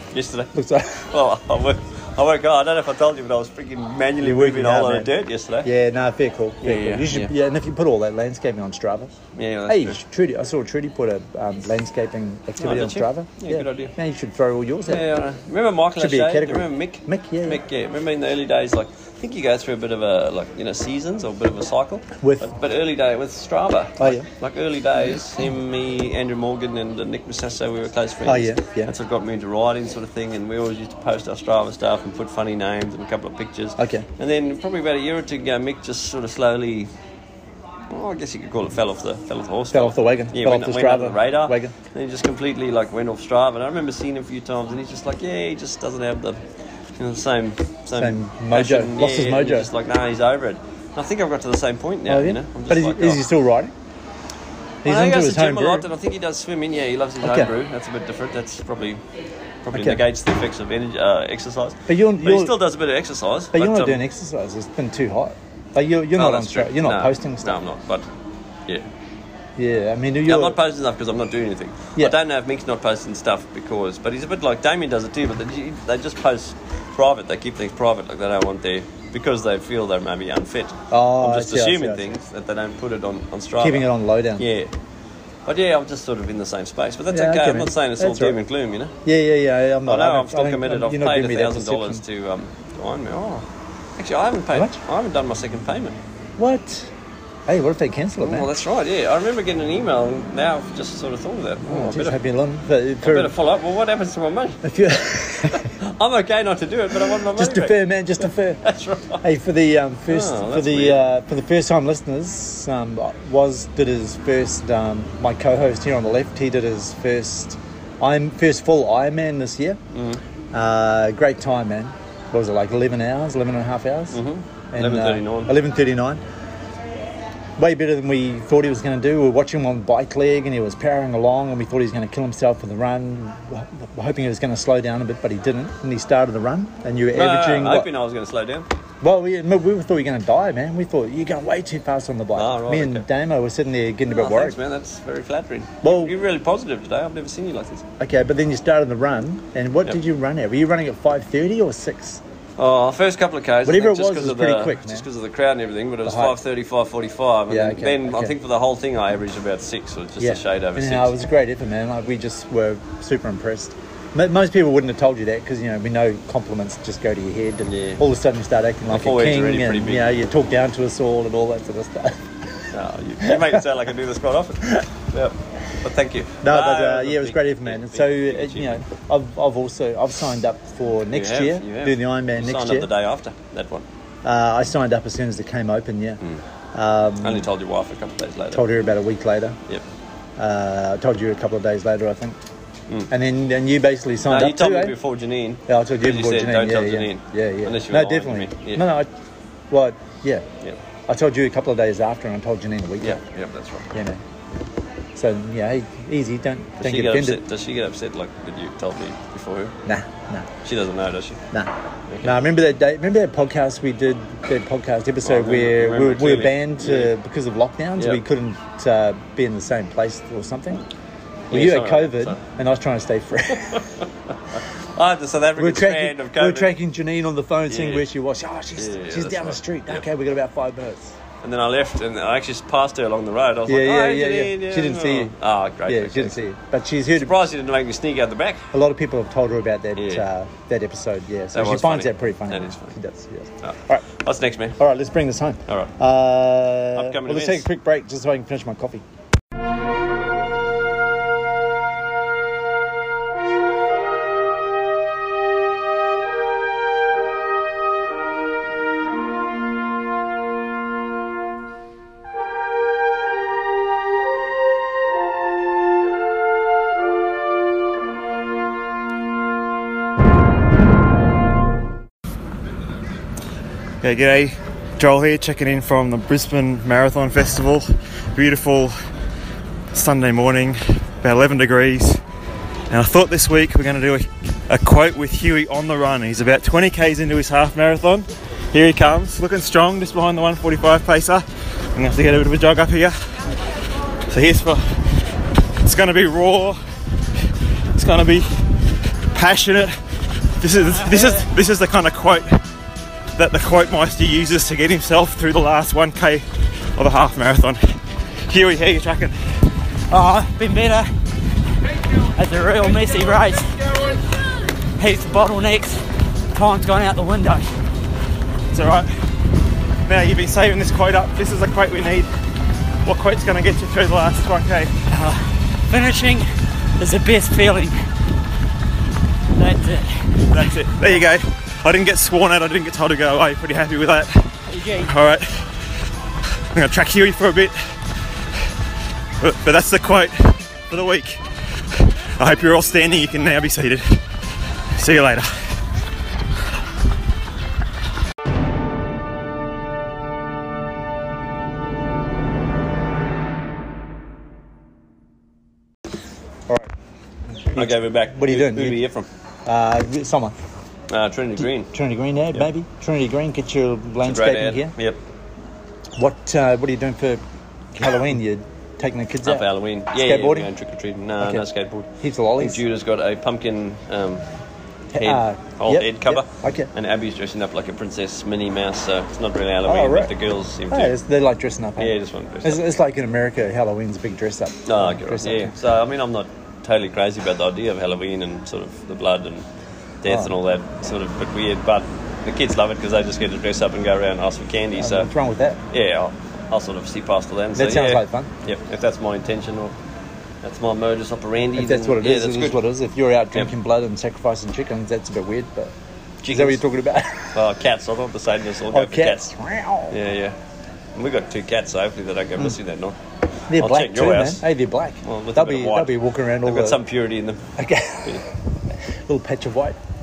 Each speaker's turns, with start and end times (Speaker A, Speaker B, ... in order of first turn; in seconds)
Speaker A: 0.1-0.5, 1.1-5.7, 6.6-7.3, 9.3-10.0, 12.6-13.9, 14.9-36.9, 37.9-46.4, 47.0-53.2, 54.9-59.0, 59.6-64.0, 66.2-68.1, 70.3-84.7, 85.5-89.0, 89.8-93.5, 94.0-96.0, 98.2-102.2, 103.0-104.6, 105.5-107.8, 108.6-109.2, 110.1-111.1, 119.9-120.2, 124.1-125.5, 137.1-138.7, 142.3-143.1, 144.1-147.9, 152.6-161.1, 167.6-168.0, 168.9-170.3, 172.7-178.8, 181.1-183.9, 187.2-188.7, 194.2-198.9, 203.0-203.9, 206.8-209.8, 210.6-211.4, 212.1-212.4, 215.2-217.1, 218.0-218.2, 221.5-222.4, 223.6-226.7, 227.7-228.1, 228.8-230.0, 231.4-236.4, 237.2-238.7, 240.0-240.3, 241.5-242.9, 243.6-244.8, 245.7-245.9, 246.9-247.7, 357.7-359.3, 361.1-361.9, 364.2-365.2, 369.4-372.1, 372.6-374.5, 375.2-381.2, 382.0-382.8, 384.9-389.7, 390.2-395.3, 395.9-399.9, 400.6-402.8, 406.4-406.8, 407.5-409.5, 410.1-410.6, 411.1-413.2, 413.7-414.7, 415.2-417.7
Speaker B: 0.5-1.1, 4.2-5.1, 5.6-9.1, 9.7-15.1, 16.0-17.6, 22.2-22.5, 24.0-24.3, 28.2-28.9, 33.8-34.1, 39.7-41.7, 48.0-49.7, 52.1-53.7, 54.8-55.9, 57.2-57.5, 59.7-60.0, 61.9-62.6, 63.5-67.6, 69.6-70.6, 80.9-82.1, 83.6-84.5, 87.1-88.4, 89.0-92.0, 94.5-94.8, 96.4-96.9, 97.5-98.5, 101.7-103.3, 104.6-105.7, 107.3-108.6, 109.2-119.8, 120.5-124.2, 124.7-126.2, 127.6-137.9, 139.0-144.6, 145.8-146.1, 148.0-152.2, 153.6-155.1, 156.1-156.4, 157.5-158.4, 160.2-172.6, 173.2-173.6, 176.4-182.9, 184.2-186.2, 186.7-187.5, 188.5-189.6, 190.4-192.4, 193.1-195.0, 195.7-199.1, 199.7-200.4, 201.1-203.2, 203.9-204.2, 205.2-207.4, 209.9-210.5, 211.5-220.8, 221.5-223.8, 225.6-231.2, 233.7-235.3, 235.9-237.3, 238.7-244.1, 244.8-249.0, 357.6-359.0, 359.6-360.6, 361.6-364.9, 366.2-367.4, 367.9-370.7, 371.4-371.7, 372.2-372.8, 375.1-376.9, 379.9-380.3, 380.9-385.7, 390.3-390.5, 395.0-395.8, 397.8-398.5, 401.8-405.9, 406.5-407.6, 408.9-410.2, 413.7-417.0, 417.8-418.4, 419.3-420.0
Speaker C: 274.0-278.9, 279.9-282.2, 282.9-291.4, 292.0-293.1, 294.3-294.8, 295.8-296.8, 297.9-298.5, 299.3-299.9, 300.6-302.6, 303.4-306.4, 307.0-308.0, 308.5-309.4, 318.7-319.1, 320.1-322.3, 323.1-324.9, 330.5-335.7, 336.7-337.8, 339.4-341.4, 341.9-344.2, 345.0-345.5
Speaker D: 301.0-301.4, 310.1-311.1, 312.4-313.7, 315.0-316.0, 316.5-317.7, 325.1-326.5, 327.0-328.0, 329.6-330.6, 334.7-335.1